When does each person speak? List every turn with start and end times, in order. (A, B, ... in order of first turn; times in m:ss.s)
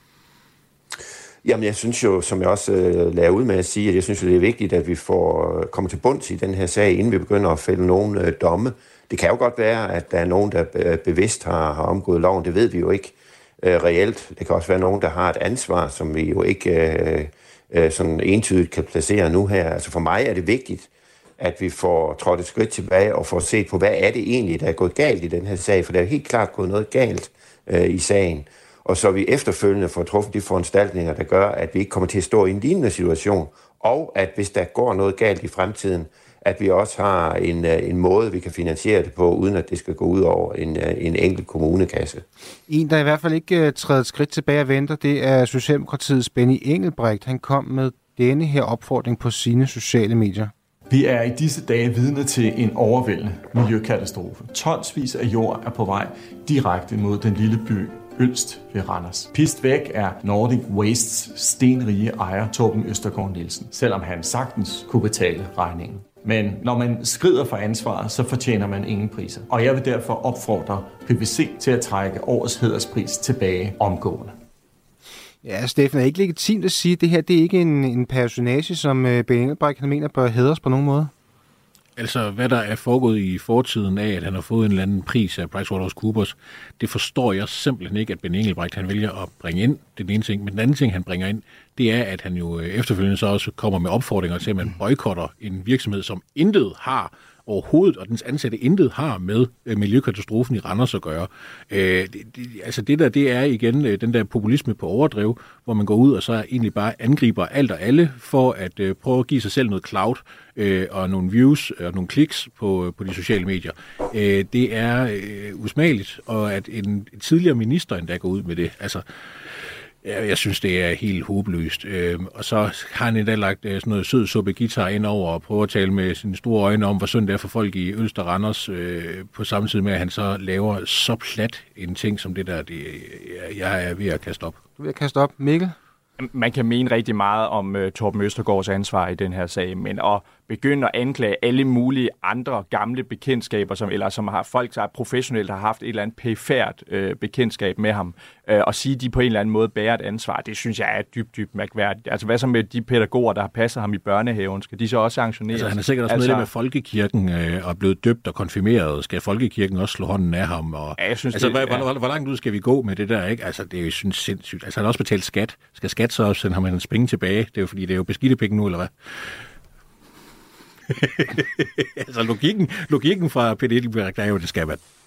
0:01.4-0:42.2 A
0:42.7-0:50.5 B
0:50.9-1:14.4 C
1:15.4-1:21.1 B
1:22.0-1:59.0 D
1:59.6-2:14.6 D
2:14.8-2:15.8 B
2:16.2-2:36.5 E
2:35.5-2:49.4 D
2:41.0-2:41.9 E
2:50.9-2:54.8 D